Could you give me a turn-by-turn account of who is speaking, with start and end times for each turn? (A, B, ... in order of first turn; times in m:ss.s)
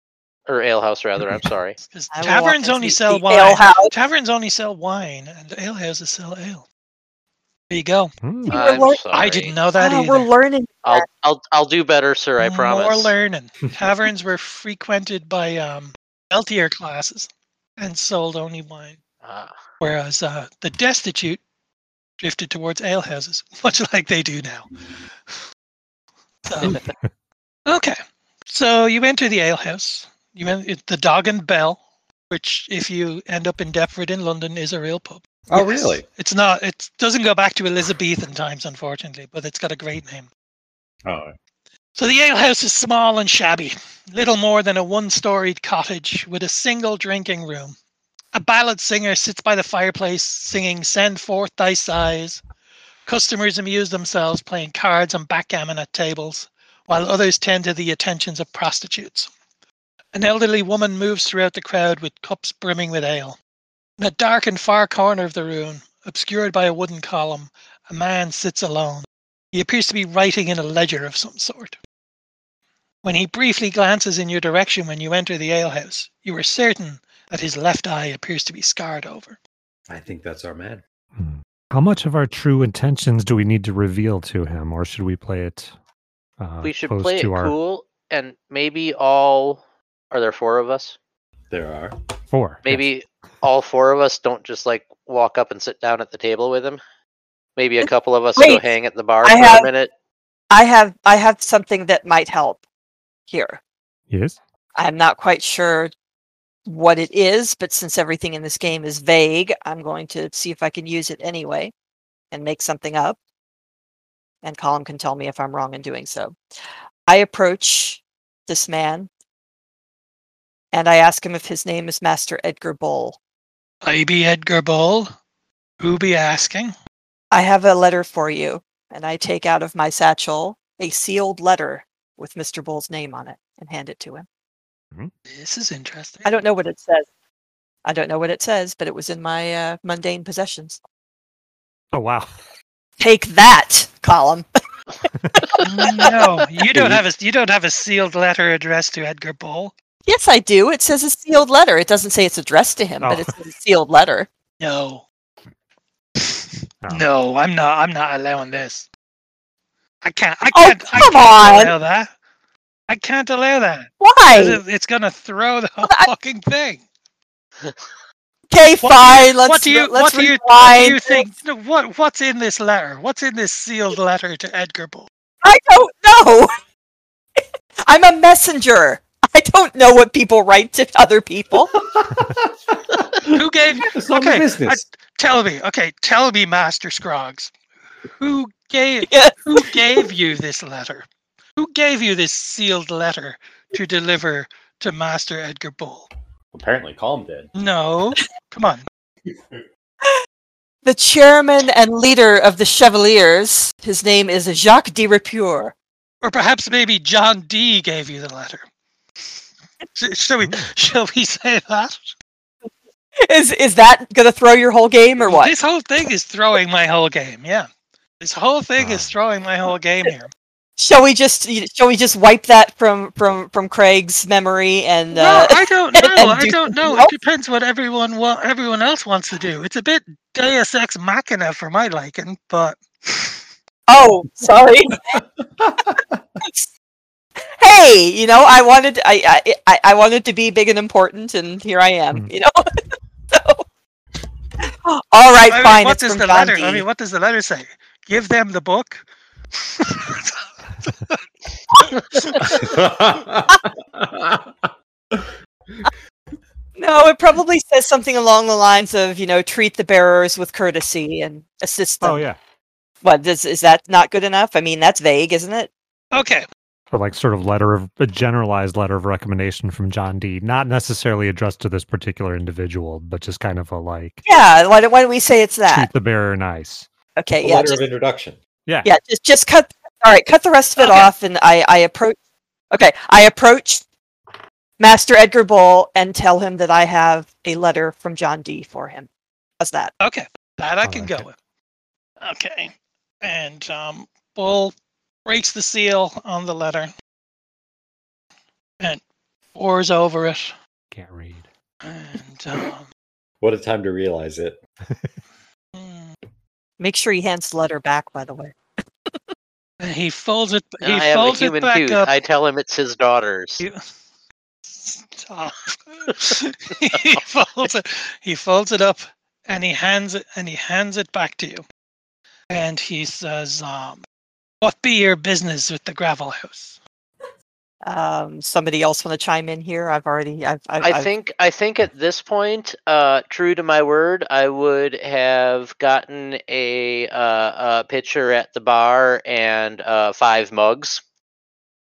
0:00.5-0:01.8 A
0:01.9-0:06.6 B
0:02.1-0:03.9 C
0:07.7-0:08.1 B
0:08.2-0:08.6 D
0:08.5-0:09.0 C
0:08.5-0:09.6 A
0:09.1-0:10.3 B
0:09.8-0:11.0 C
0:10.8-0:13.1 A
0:12.4-0:19.0 B
0:19.2-0:19.5 A
0:19.8-0:21.4 B
0:22.2-0:24.7 B
0:26.4-0:26.8 B
0:27.6-0:27.9 B
0:28.5-0:31.8 B
0:32.3-0:40.3 B
0:35.5-0:36.0 E
0:41.0-0:41.3 E
0:42.0-0:47.7 B
0:48.3-0:52.4 B
0:53.0-0:59.3 B
1:00.1-1:03.4 B
1:04.0-1:11.8 B
1:13.0-1:19.4 B
1:19.9-1:20.8 E
1:21.2-1:25.7 D
1:26.4-1:27.5 D
1:26.6-1:29.6 A
1:30.1-1:31.0 A
1:31.5-1:32.2 E
1:32.3-1:32.8 D
1:32.6-1:36.8 A
1:37.6-1:39.9 A
1:37.8-1:38.6 C
1:39.2-1:39.7 C
1:40.5-1:42.6 C
1:43.3-1:43.6 C
1:44.1-1:44.4 D
1:44.8-1:45.9 C
1:46.6-1:51.7 C
1:52.3-1:53.2 C
1:54.4-1:56.4 C
1:57.1-1:59.1 C
2:00.7-2:03.2 C
2:03.8-2:05.1 B
2:05.8-2:06.7 B
2:07.3-2:14.2 C
2:15.3-2:16.4 B
2:16.2-2:17.1 C
2:17.8-2:20.8 C
2:21.9-2:22.3 D
2:23.0-2:24.5 C
2:25.4-2:26.6 C
2:25.6-2:29.7 B
2:26.7-2:27.0 E
2:30.0-2:34.3 C
2:33.0-2:33.3 D
2:34.6-2:35.0 B
2:36.2-2:38.9 B
2:40.0-2:42.1 B
2:40.5-2:41.7 C
2:42.9-2:46.8 B
2:44.0-2:44.6 C
2:45.8-2:46.1 C
2:48.5-2:51.3 C
2:48.8-2:55.1 B
2:55.4-2:56.6 C
2:57.8-3:01.7 C
3:01.8-3:04.8 E
3:03.3-3:07.5 B
3:08.2-3:16.1 B
3:09.0-3:10.0 C
3:16.5-3:17.5 E
3:17.5-3:18.8 B
3:20.8-3:25.7 C
3:26.2-3:28.6 B
3:29.9-3:32.1 B
3:30.4-3:30.7 D
3:33.2-3:35.6 C
3:35.2-3:37.7 B
3:38.2-3:40.3 B
3:38.8-3:39.1 D
3:40.8-3:47.1 C
3:45.1-3:53.4 B
3:53.9-3:55.2 C
3:55.1-3:56.1 E
3:56.4-3:56.6 C
3:57.6-4:02.7 C
4:03.3-4:03.6 C
4:04.6-4:06.8 C
4:05.5-4:09.0 B
4:09.8-4:11.2 B
4:12.1-4:12.6 B
4:12.6-4:15.8 E
4:16.8-4:22.2 C
4:22.0-4:22.4 D
4:23.0-4:25.7 C
4:26.1-4:26.4 B
4:26.9-4:34.2 D
4:34.2-4:35.9 C
4:35.7-4:36.9 D
4:37.2-4:37.8 C
4:37.4-4:38.4 E
4:38.8-4:42.2 C
4:40.8-4:41.1 B
4:42.7-4:43.8 C
4:44.8-4:49.1 C
4:49.6-4:49.9 C
4:50.0-4:51.3 B
4:50.8-4:51.2 D
4:52.2-4:54.7 B
4:55.2-4:56.9 B
4:59.5-5:00.5 B
5:00.9-5:01.4 D
5:01.8-5:02.9 B
5:03.4-5:04.6 E
5:05.7-5:06.2 B
5:06.8-5:08.6 C
5:09.8-5:12.1 B
5:10.8-5:13.6 A
5:14.7-5:21.6 B
5:22.5-5:24.0 B
5:24.6-5:26.8 B
5:27.8-5:31.1 C
5:30.8-5:41.0 A